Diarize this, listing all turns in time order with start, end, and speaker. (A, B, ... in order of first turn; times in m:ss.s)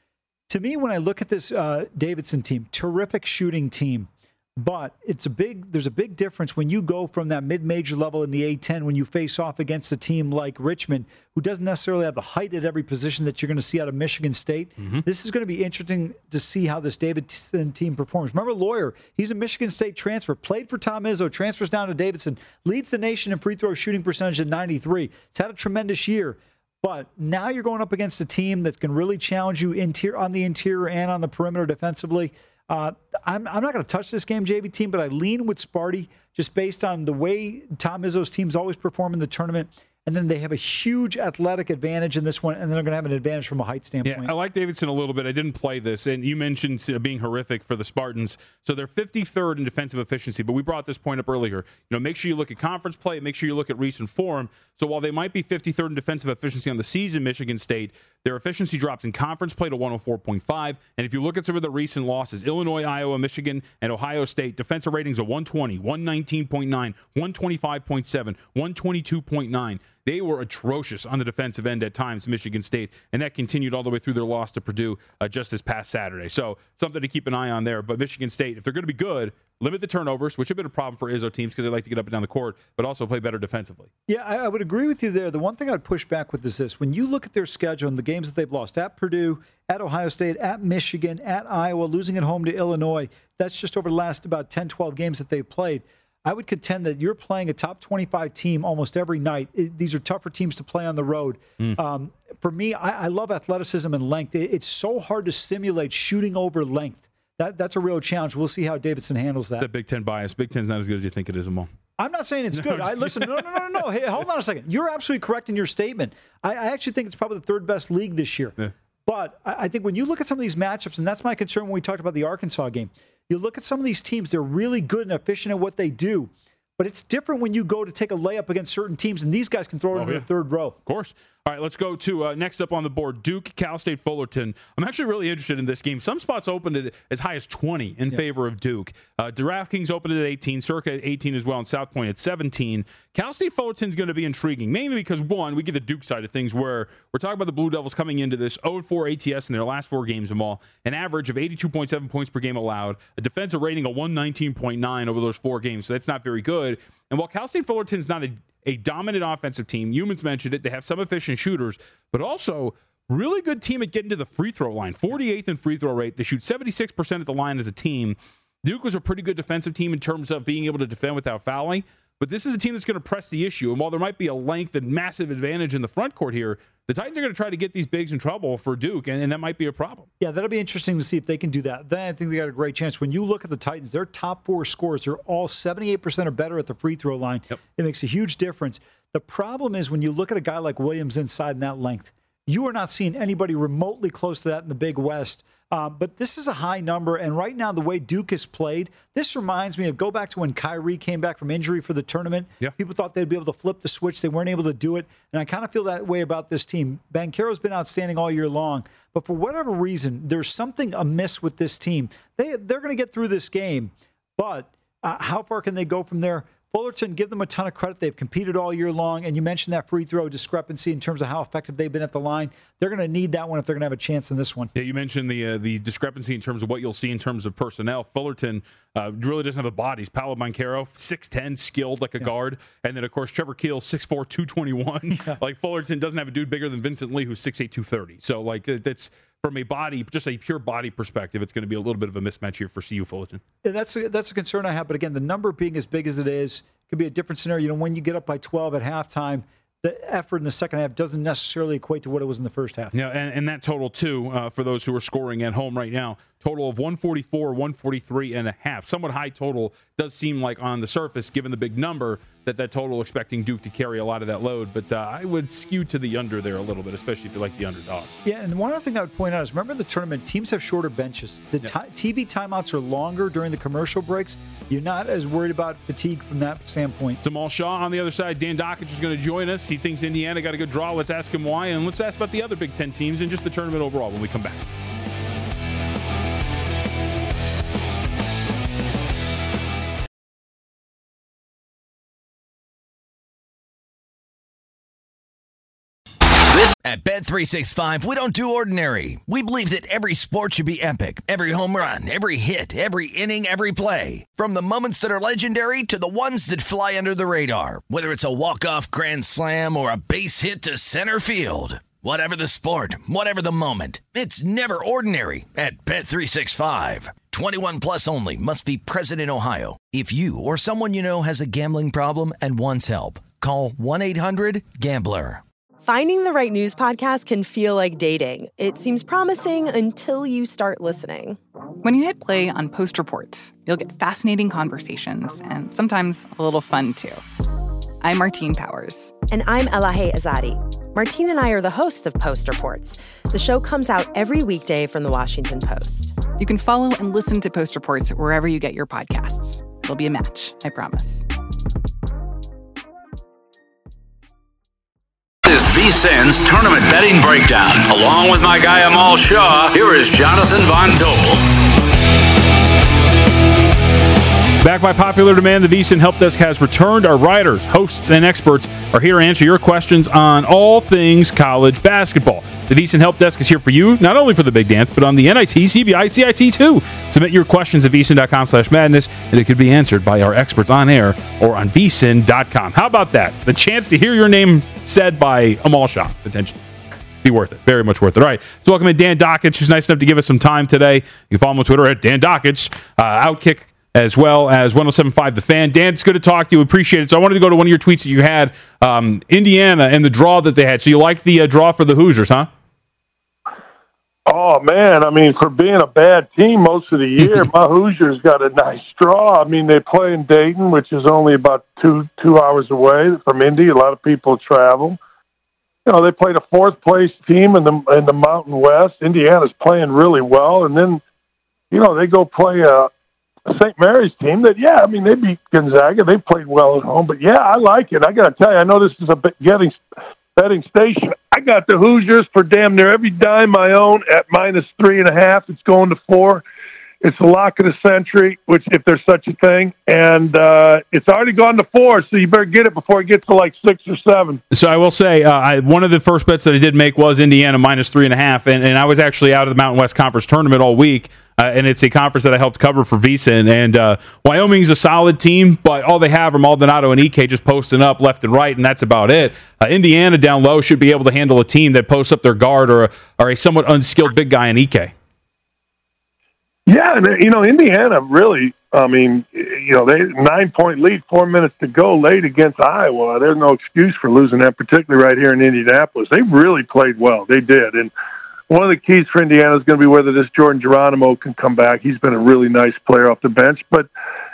0:00.5-0:44.3 A
0:44.0-1:23.9 B
1:24.1-1:49.7 A
1:49.6-1:51.7 B
1:52.0-1:58.6 A
1:52.6-1:53.5 B
1:59.1-2:10.8 A
2:09.9-2:10.3 B
2:10.9-3:00.1 B
3:00.2-3:44.7 A
3:44.8-4:03.4 B
4:03.6-4:12.9 A
4:12.9-4:28.1 B
4:28.2-4:37.2 A
4:37.2-4:44.6 B
4:56.5-4:56.8 C
4:56.8-5:25.4 D
5:25.8-5:31.4 E
5:31.8-5:37.2 F
5:38.0-5:39.1 F
5:39.3-5:46.2 E
5:46.4-5:51.2 F
5:55.4-6:01.4 C
6:04.6-6:26.6 B
6:27.2-6:42.5 B
6:44.3-6:55.0 G
6:55.9-7:01.0 G
7:01.7-7:02.9 G
7:03.5-7:09.8 G
7:10.4-7:16.4 G
7:17.0-7:24.4 G
7:24.5-7:44.9 B
7:46.7-7:57.9 G
7:58.5-8:03.9 G